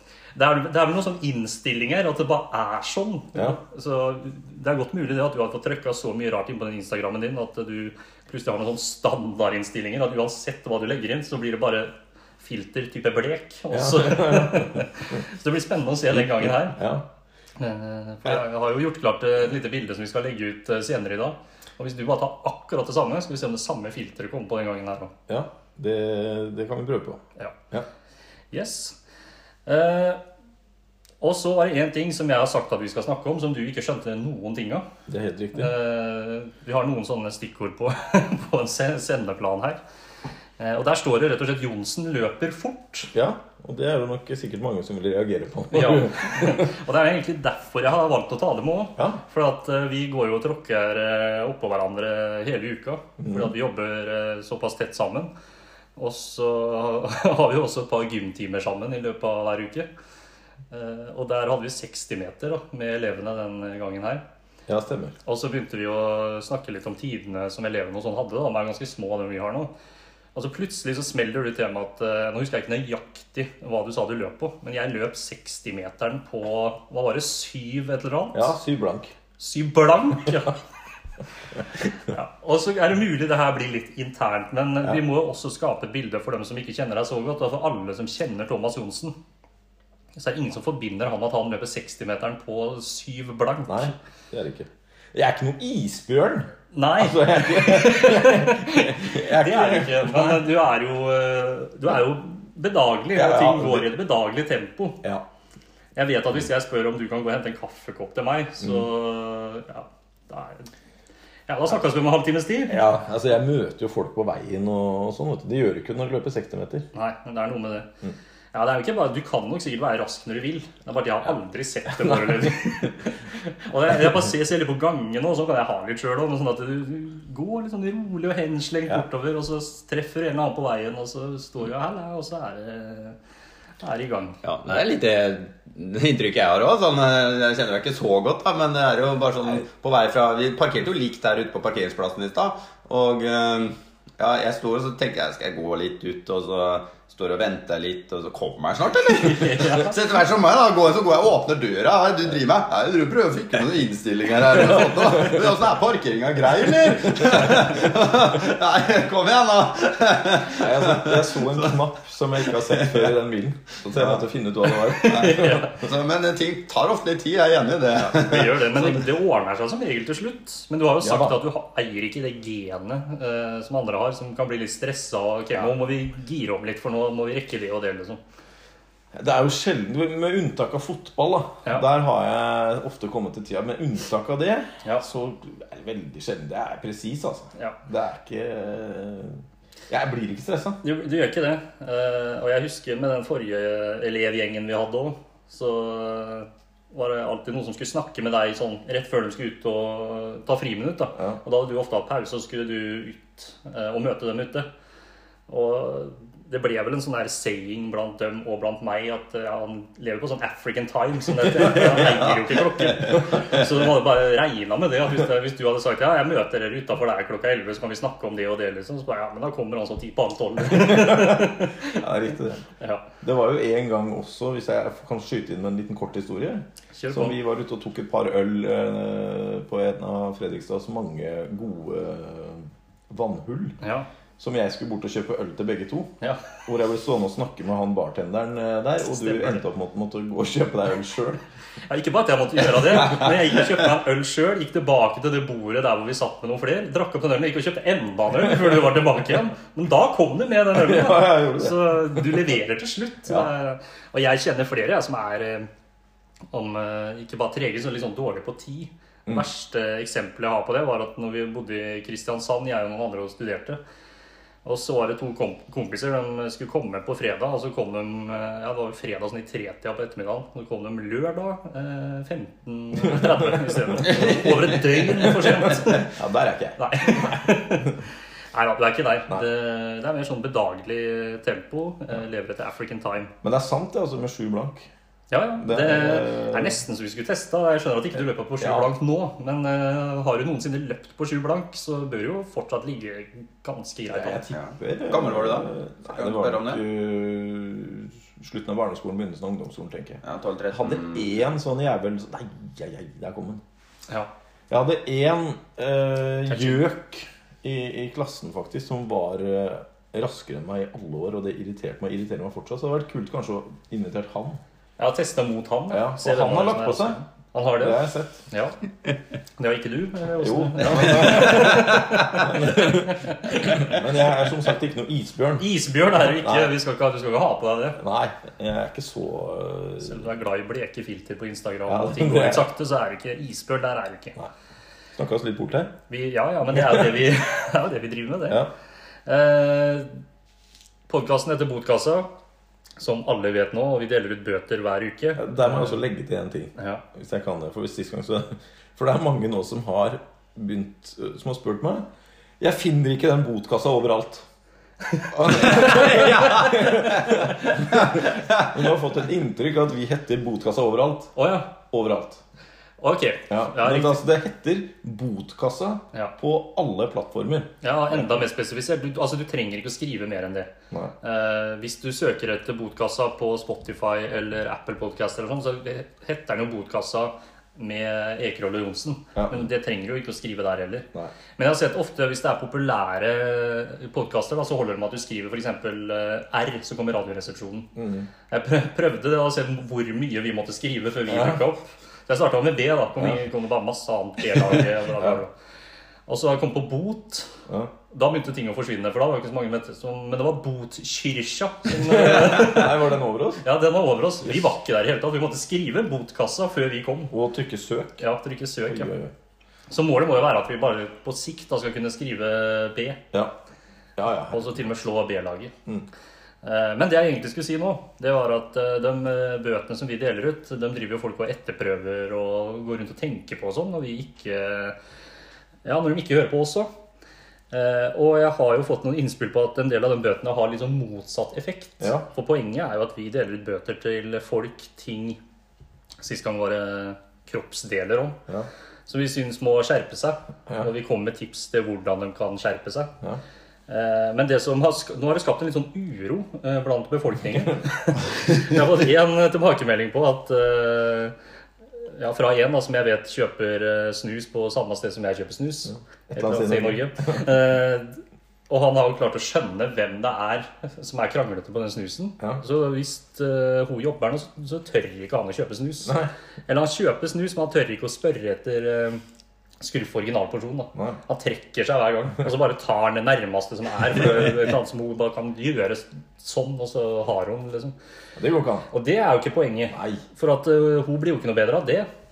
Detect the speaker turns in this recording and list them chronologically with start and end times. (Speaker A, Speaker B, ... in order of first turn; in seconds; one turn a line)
Speaker A: 0.3-16.8
Speaker B: 13.7-15.2
Speaker B: 16.1-17.1
Speaker A: 17.6-25.1
Speaker B: 25.3-27.9
Speaker A: 28.5-28.9
Speaker A: 29.7-30.2
Speaker A: 31.2-34.9
Speaker B: 35.1-35.7
Speaker A: 35.5-39.8
Speaker A: 40.6-43.1
Speaker B: 43.1-46.7
Speaker A: 45.7-55.3
Speaker B: 53.2-53.5
Speaker A: 56.0-59.9
Speaker A: 60.7-64.2
Speaker B: 64.7-65.2
Speaker A: 65.2-69.7
Speaker A: 70.3-78.5
Speaker B: 78.3-79.1
Speaker A: 79.4-80.6
Speaker A: 82.0-89.2
Speaker A: 90.2-94.0
Speaker B: 93.7-100.5
Speaker A: 96.7-105.0
Speaker B: 103.2-103.9
Speaker A: 106.0-110.7
Speaker A: 111.5-112.8
Speaker B: 112.7-116.9
Speaker A: 116.9-117.9
Speaker A: 118.5-133.2
Speaker B: 121.9-122.8
Speaker A: 133.8-134.4
Speaker C: 134.4-161.7
Speaker A: 149.1-150.0
Speaker B: 160.5-165.6
Speaker C: 162.5-163.1
Speaker C: 163.9-164.2
Speaker A: 164.9-165.8
Speaker C: 165.1-168.9
Speaker A: 168.1-178.2
Speaker B: 171.0-171.4
Speaker B: 179.1-190.8
Speaker A: 190.8-204.7
Speaker A: 205.5-222.0
Speaker B: 220.7-222.7
Speaker B: 223.2-233.8
Speaker A: 226.9-227.4
Speaker A: 233.8-234.1
Speaker B: 234.4-236.1
Speaker A: 236.2-236.5
Speaker B: 236.7-241.4
Speaker A: 239.0-239.6
Speaker A: 241.9-255.7
Speaker B: 242.8-243.7
Speaker B: 250.7-252.5
Speaker A: 256.5-263.8
Speaker A: 264.6-276.1
Speaker B: 273.0-277.9
Speaker A: 276.8-283.3
Speaker B: 283.4-284.9
Speaker A: 285.3-294.4
Speaker B: 285.6-286.8
Speaker B: 288.6-288.9
Speaker B: 294.1-303.6
Speaker C: 294.5-296.8
Speaker C: 300.2-301.3
Speaker B: 304.7-314.6
Speaker A: 306.5-306.8
Speaker A: 315.0-318.8
Speaker B: 315.9-317.2
Speaker B: 317.8-318.4
Speaker A: 319.6-324.0
Speaker B: 320.4-326.7
Speaker A: 325.6-328.0
Speaker B: 328.0-330.2
Speaker A: 330.0-334.4
Speaker B: 331.9-332.7
Speaker B: 335.2-335.9
Speaker A: 336.1-338.6
Speaker B: 336.7-337.2
Speaker A: 339.3-340.2
Speaker A: 341.1-342.3
Speaker A: 343.0-346.0
Speaker B: 345.4-352.1
Speaker A: 346.8-347.0
Speaker B: 352.6-354.5
Speaker A: 355.2-357.3
Speaker B: 355.3-362.4
Speaker C: 355.8-356.7
Speaker A: 361.4-361.7
Speaker A: 363.0-364.2
Speaker B: 363.5-367.7
Speaker A: 367.8-370.7
Speaker A: 371.2-387.9
Speaker B: 379.4-379.7
Speaker B: 388.0-388.3
Speaker A: 388.5-395.5
Speaker B: 391.3-391.6
Speaker A: 396.3-397.6
Speaker A: 398.1-407.3
Speaker B: 402.0-403.6
Speaker B: 407.3-408.2
Speaker A: 408.2-409.1
Speaker B: 408.9-409.3
Speaker A: 409.9-413.2
Speaker B: 414.2-414.8
Speaker A: 414.5-415.7
Speaker A: 416.6-425.0
Speaker A: 425.9-426.9
Speaker A: 427.7-435.4
Speaker B: 432.0-432.3
Speaker A: 436.2-438.4
Speaker A: 439.1-443.1
Speaker A: 443.9-451.4
Speaker A: 452.0-469.2
Speaker B: 456.3-457.5
Speaker B: 466.1-466.3
Speaker A: 469.8-477.9
Speaker B: 470.9-471.2
Speaker B: 478.4-478.9
Speaker A: 478.9-482.1
Speaker B: 479.9-480.2